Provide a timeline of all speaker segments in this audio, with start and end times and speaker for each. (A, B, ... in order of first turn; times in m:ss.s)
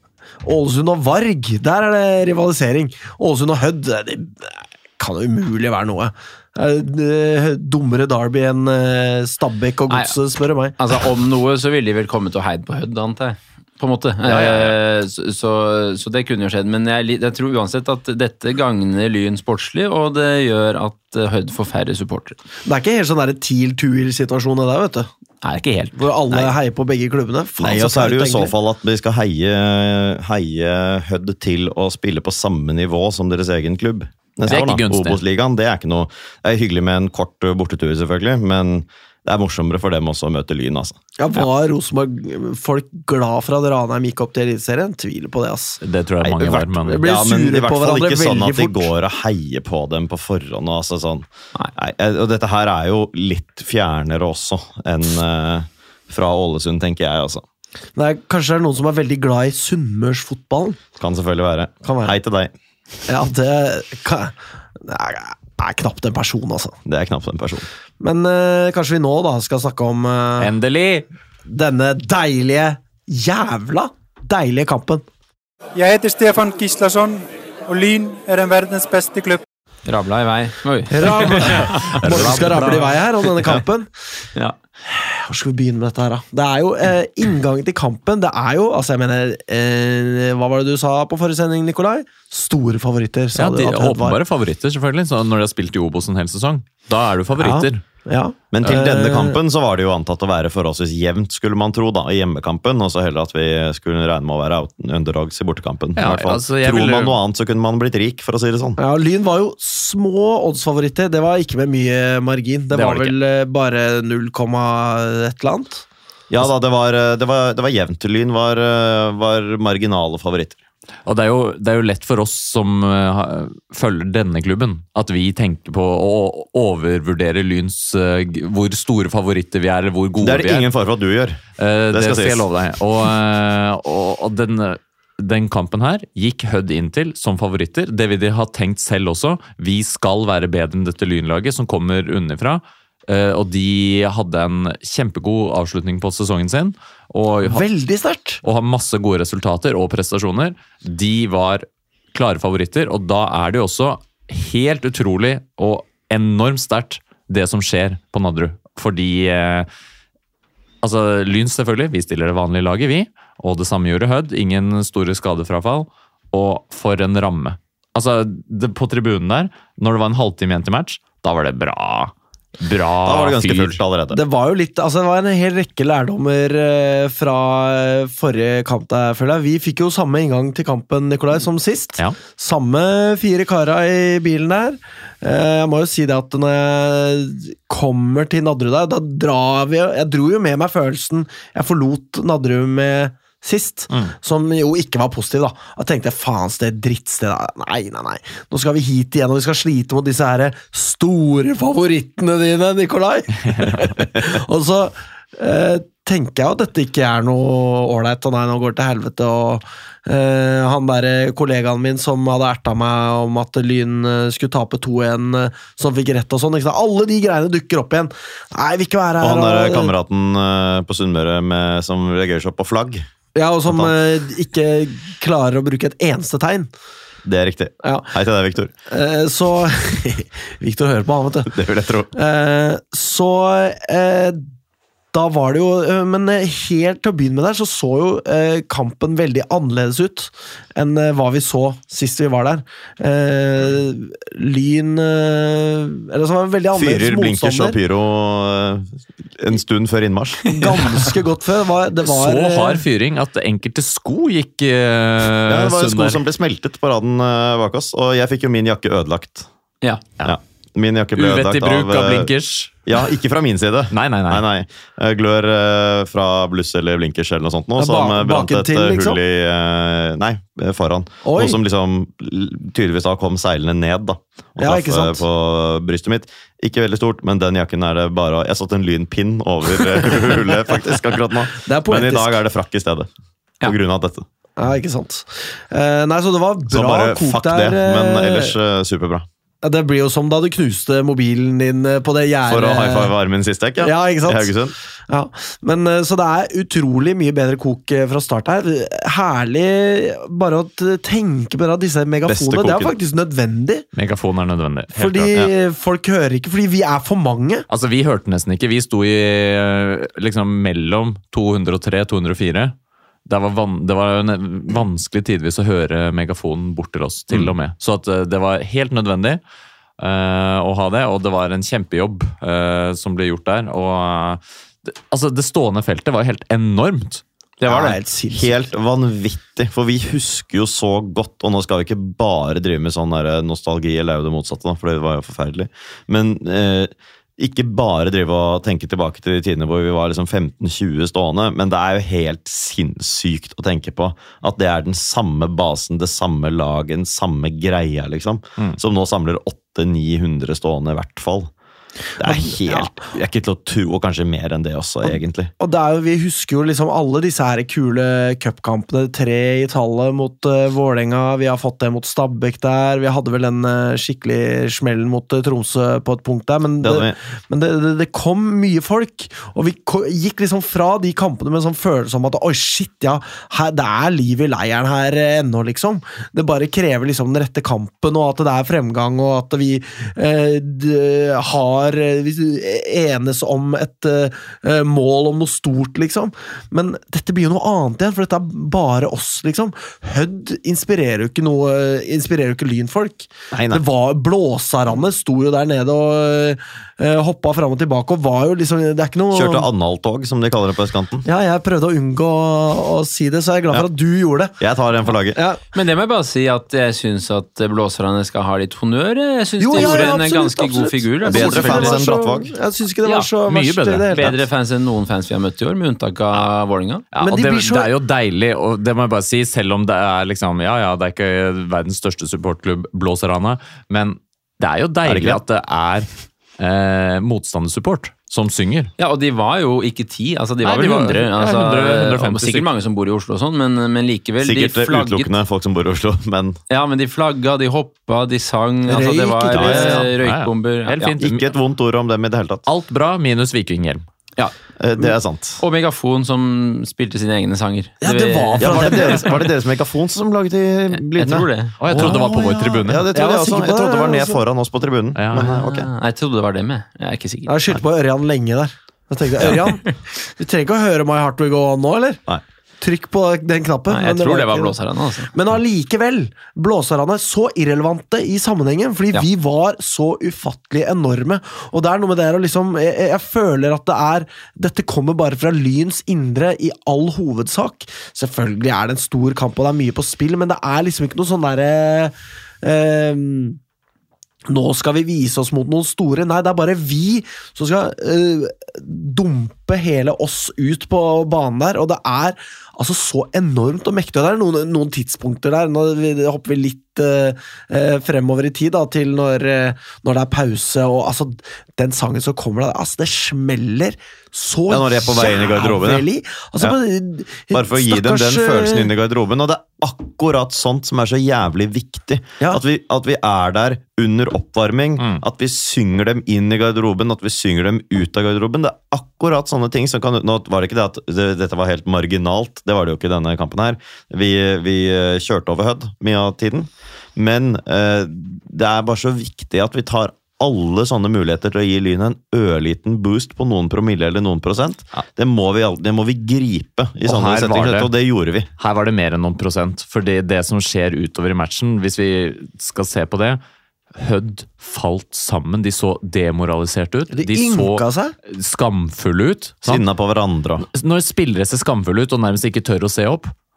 0:00.4-0:10.8 A
0:09.9-0:10.2 B
0:10.8-0:22.4 B
0:14.2-0:14.8 C
0:22.6-0:25.1 A
0:25.4-0:26.4 B
0:26.0-0:28.5 A
0:27.6-0:41.0 D
0:34.4-0:35.2 C
0:41.2-0:45.8 A
0:45.8-0:47.0 C
0:46.2-0:57.4 D
0:46.8-0:48.9 A
0:58.0-1:00.8 A
1:01.0-1:02.5 D
1:01.8-1:02.1 A
1:03.1-1:06.8 A
1:06.8-1:07.6 D
1:08.0-1:10.5 A
1:10.4-1:11.0 C
1:11.5-1:15.0 A
1:15.7-1:19.4 E
1:19.8-1:22.8 B
1:20.9-1:23.9 A
1:21.6-1:23.6 C
1:24.9-1:34.2 A
1:33.3-1:37.8 C
1:37.4-1:39.4 A
1:38.5-1:48.8 D
1:46.0-1:47.2 C
1:48.8-1:55.8 A
1:52.7-1:53.1 C
1:56.3-2:00.6 D
2:01.0-2:10.7 C
2:10.2-2:12.4 D
2:11.6-2:27.6 C
2:27.4-2:28.4 A
2:28.4-2:39.7 C
2:40.8-2:53.8 C
2:53.0-2:54.2 D
2:54.1-3:39.9 A
3:39.2-3:43.0 D
3:43.3-3:46.7 A
3:43.6-3:44.0 D
3:47.2-3:48.7 D
3:47.8-3:48.1 A
3:48.9-3:51.5 A
3:51.5-3:52.1 D
3:52.1-3:54.4 A
3:55.1-4:07.8 A
4:06.7-4:10.6 D
4:10.6-4:12.8 A
4:12.0-4:16.2 C
4:15.5-4:19.5 D
4:20.2-4:22.3 D
4:21.2-4:22.8 C
4:22.8-4:43.1 D
4:23.9-4:24.4 C
4:27.8-4:29.2 A
4:31.2-4:31.6 A
4:34.6-4:35.2 A
4:41.6-4:42.3 A
4:43.6-4:44.2 D
4:44.6-4:48.5 A
4:46.7-4:49.3 D
4:49.6-4:53.1 A
4:52.4-4:54.7 D
4:53.8-4:54.6 A
4:55.1-5:03.8 A
5:02.2-5:03.0 D
5:03.9-5:05.4 C
5:04.9-5:07.7 A
5:07.7-5:12.7 C
5:13.2-5:19.4 C
5:20.0-5:27.2 C
5:27.6-5:28.0 B
5:27.6-5:28.5 A
5:28.3-5:51.5 D
5:52.2-5:55.5 D
5:52.2-5:53.0 A
5:55.6-6:39.7 A
6:06.8-6:07.2 D
6:33.5-6:33.8 D
6:39.3-6:41.2 D
6:41.2-6:44.5 A
6:44.6-6:45.4 D
6:45.3-6:45.6 A
6:45.7-6:52.0 B
6:49.6-6:54.3 A
6:49.8-6:50.0 D
6:51.3-6:52.5 D
6:53.1-6:54.3 C
6:54.1-6:57.0 B
6:57.1-7:08.9 C
6:57.2-6:57.9 A
7:05.0-7:05.4 D
7:09.0-7:15.3 B
7:10.6-7:12.6 C
7:14.4-7:16.6 D
7:16.7-7:21.1 B
7:18.9-7:20.1 A
7:19.5-7:20.0 D
7:20.1-7:21.5 C
7:21.2-7:22.6 D
7:22.6-7:24.0 C
7:24.8-7:25.6 D
7:25.6-7:29.3 B
7:28.0-7:29.4 A
7:28.6-7:35.9 D
7:31.1-7:31.8 B
7:31.8-7:33.1 C
7:33.1-7:34.4 A
7:35.1-7:35.6 C
7:35.4-7:37.8 B
7:37.4-7:42.2 A
7:39.5-7:39.9 B
7:42.8-7:44.8 A
7:43.9-7:45.3 B
7:45.3-8:03.6 A
8:04.5-8:28.9 A
8:24.7-8:26.0 D
8:27.5-8:58.5 D
8:57.0-8:57.9 C
8:58.6-9:03.4 C
9:03.9-9:09.8 C
9:07.1-9:08.1 A
9:09.6-9:10.6 D
9:10.6-9:13.3 C